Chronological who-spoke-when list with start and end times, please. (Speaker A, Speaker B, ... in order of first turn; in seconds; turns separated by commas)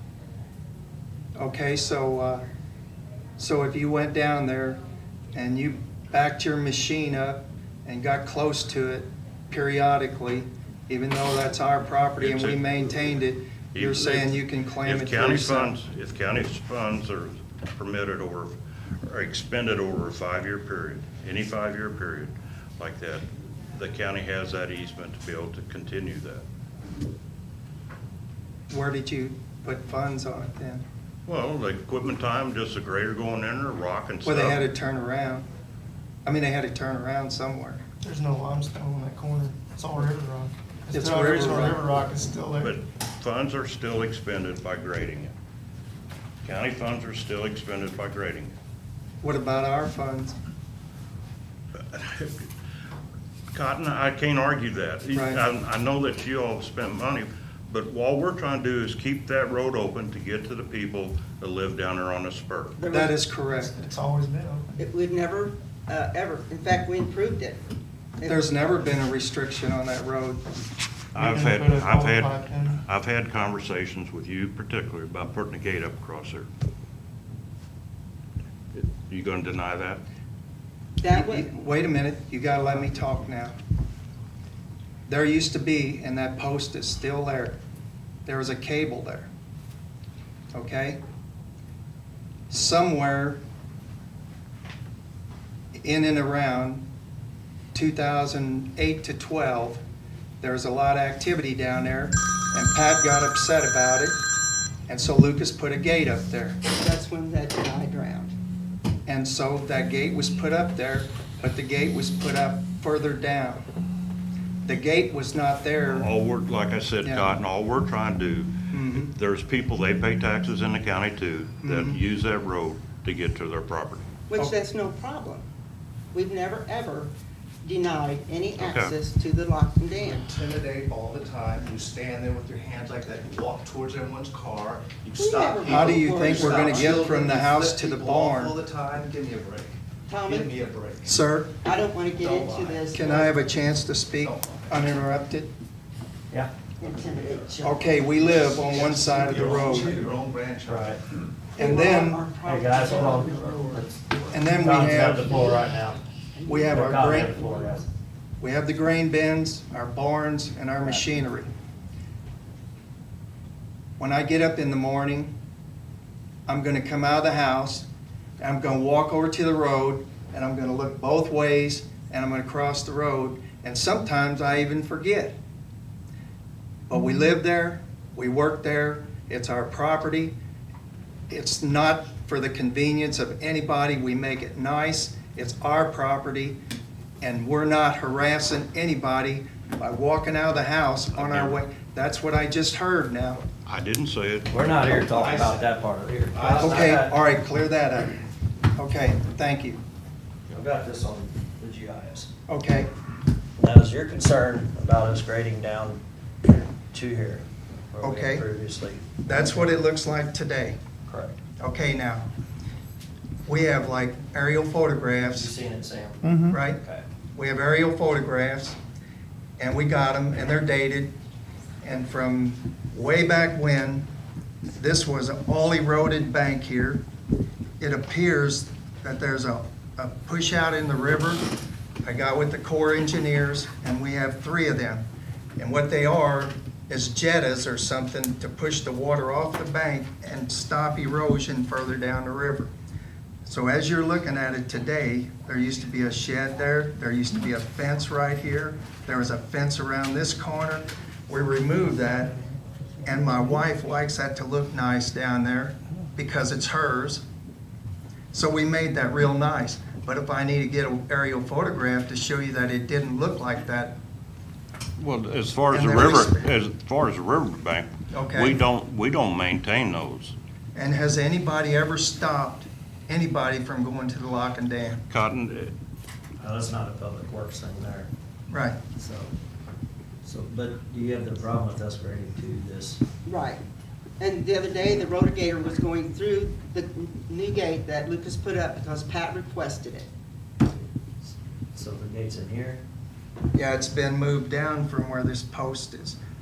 Speaker A: 1.4-2.4, Speaker A: 3.4-4.8, Speaker A: 5.3-15.8, Speaker B: 12.2-13.0, Speaker B: 13.7-26.4, Speaker A: 28.7-30.8, Speaker B: 31.3-34.7, Speaker A: 34.2-35.5, Speaker A: 36.2-37.8, Speaker C: 38.0-42.8, Speaker A: 40.9-41.8, Speaker B: 42.6-45.4, Speaker B: 46.4-48.6, Speaker A: 49.2-50.4, Speaker B: 51.8-52.5, Speaker B: 53.5-62.8, Speaker A: 55.1-55.4, Speaker D: 62.8-63.2, Speaker A: 62.9-63.8, Speaker C: 63.5-64.7, Speaker D: 64.8-67.6, Speaker D: 68.2-68.5, Speaker A: 68.3-70.5, Speaker C: 71.2-72.8, Speaker B: 71.2-76.5, Speaker B: 78.8-80.0, Speaker D: 81.0-81.5, Speaker A: 81.1-83.5, Speaker A: 85.1-87.6, Speaker A: 88.3-89.3, Speaker A: 90.5-91.0, Speaker A: 92.5-93.4, Speaker A: 95.8-96.8, Speaker A: 97.7-99.8, Speaker A: 100.4-104.2, Speaker A: 104.9-106.6, Speaker D: 106.7-108.3, Speaker A: 109.1-113.7, Speaker A: 114.7-116.1, Speaker B: 115.9-124.1, Speaker A: 117.0-117.3, Speaker A: 118.7-119.1, Speaker A: 121.6-122.0, Speaker D: 124.3-125.4, Speaker D: 126.1-127.1, Speaker D: 127.6-130.3, Speaker B: 128.6-128.9, Speaker E: 130.0-141.2, Speaker D: 135.2-137.0, Speaker A: 135.7-138.6, Speaker D: 140.1-140.6, Speaker A: 141.1-141.5, Speaker D: 141.6-143.3, Speaker E: 142.2-142.8, Speaker A: 142.9-145.5, Speaker E: 144.2-144.6, Speaker D: 146.8-148.1, Speaker A: 147.6-150.1, Speaker E: 148.2-151.0, Speaker F: 150.7-151.0, Speaker D: 151.6-153.4, Speaker A: 151.6-152.2, Speaker F: 152.4-156.0, Speaker E: 153.1-153.9, Speaker A: 154.3-155.4, Speaker D: 156.4-157.0, Speaker A: 156.5-157.4, Speaker F: 156.6-157.9, Speaker A: 158.4-161.5, Speaker A: 164.0-165.3, Speaker A: 166.5-167.9, Speaker A: 168.4-175.4, Speaker A: 176.9-180.3, Speaker A: 181.3-186.6, Speaker A: 187.2-193.5, Speaker B: 191.2-191.6, Speaker B: 193.7-194.5, Speaker F: 194.5-197.2, Speaker E: 195.1-195.7, Speaker E: 196.3-197.0, Speaker A: 196.6-198.2, Speaker A: 198.8-199.8, Speaker F: 200.5-202.3, Speaker A: 202.5-202.9, Speaker F: 203.6-206.0, Speaker F: 206.9-209.7, Speaker A: 208.0-208.4, Speaker A: 209.2-210.8, Speaker F: 211.1-211.4, Speaker A: 211.6-212.3, Speaker A: 213.5-215.5, Speaker F: 215.3-217.1, Speaker C: 216.3-216.6, Speaker A: 216.5-216.8, Speaker A: 217.3-218.8, Speaker A: 219.6-221.1, Speaker A: 221.8-224.1, Speaker A: 224.8-227.0, Speaker A: 227.8-231.5, Speaker A: 232.0-235.1, Speaker A: 235.6-242.7, Speaker A: 243.4-252.4, Speaker A: 253.0-257.2, Speaker A: 258.3-264.0, Speaker B: 265.0-270.4, Speaker A: 265.7-266.5, Speaker A: 268.1-268.6, Speaker A: 270.8-275.0, Speaker B: 275.1-275.7, Speaker F: 276.4-278.1, Speaker A: 278.5-278.8, Speaker F: 278.9-279.3, Speaker F: 280.2-283.0, Speaker D: 283.2-283.6, Speaker D: 284.2-290.1, Speaker F: 291.2-292.8, Speaker A: 293.5-296.2